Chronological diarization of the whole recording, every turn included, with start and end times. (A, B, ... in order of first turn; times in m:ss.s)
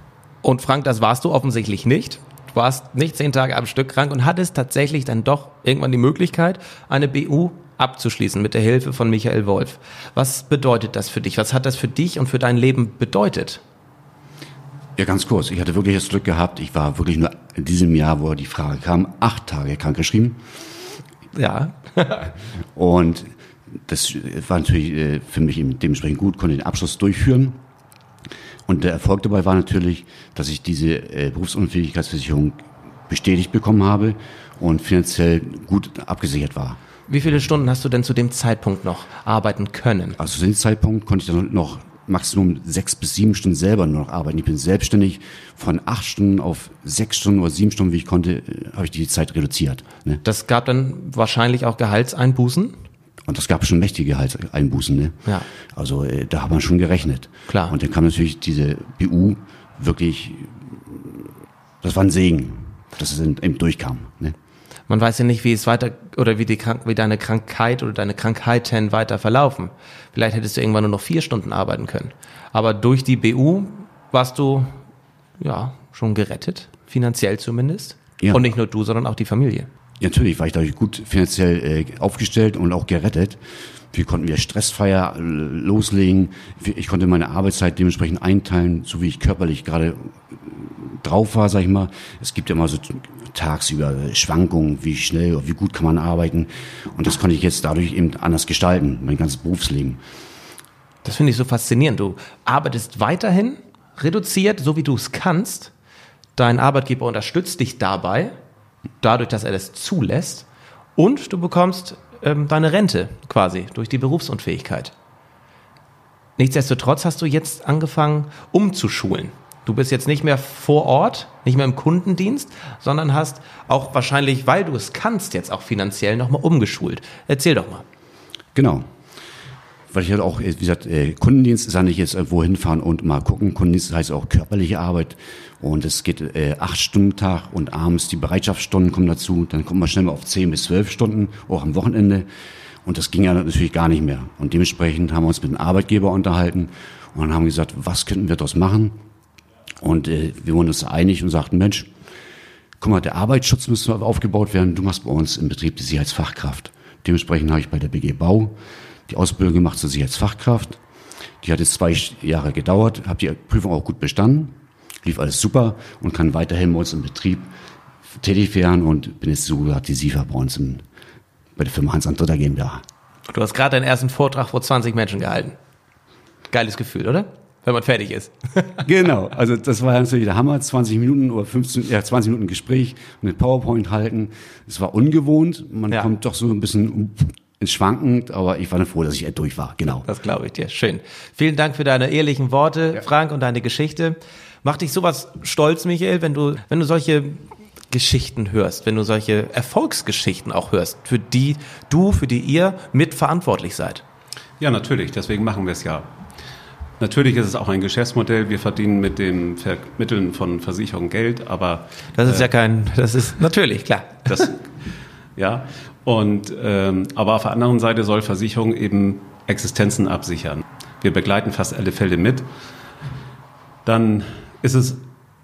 0:00.4-0:13.6 A
0:15.0-0:20.4 B
0:21.3-0:22.3 A
0:22.8-0:23.3 B
0:23.8-0:27.6 B
0:28.7-0:36.8 B
0:37.1-0:40.2 A
0:40.2-0:50.2 B
0:50.2-0:52.8 A
0:53.2-0:55.2 B
0:55.7-1:01.3 B
0:57.5-0:57.7 A
1:01.8-1:04.4 B
1:04.9-1:14.8 A
1:15.4-1:19.7 A
1:18.2-1:18.5 B
1:20.0-1:23.4 B
1:23.9-1:40.0 B
1:41.0-1:45.7 A
1:46.4-1:48.3 A
1:49.0-1:54.9 A
1:56.4-2:07.8 A
2:08.6-2:08.9 B
2:09.9-2:22.3 B
2:22.8-2:29.0 B
2:29.8-2:31.9 B
2:32.8-2:38.5 B
2:39.1-2:40.8 B
2:41.4-2:47.5 B
2:48.2-2:50.8 B
2:51.6-2:52.8 B
2:53.3-2:55.6 A
2:56.5-2:58.9 A
2:58.8-3:10.1 B
3:10.0-3:24.0 A
3:24.6-3:26.1 C
3:27.0-3:32.5 C
3:32.2-3:34.5 A
3:34.3-3:34.6 C
3:35.4-3:42.5 C
3:43.8-3:45.0 C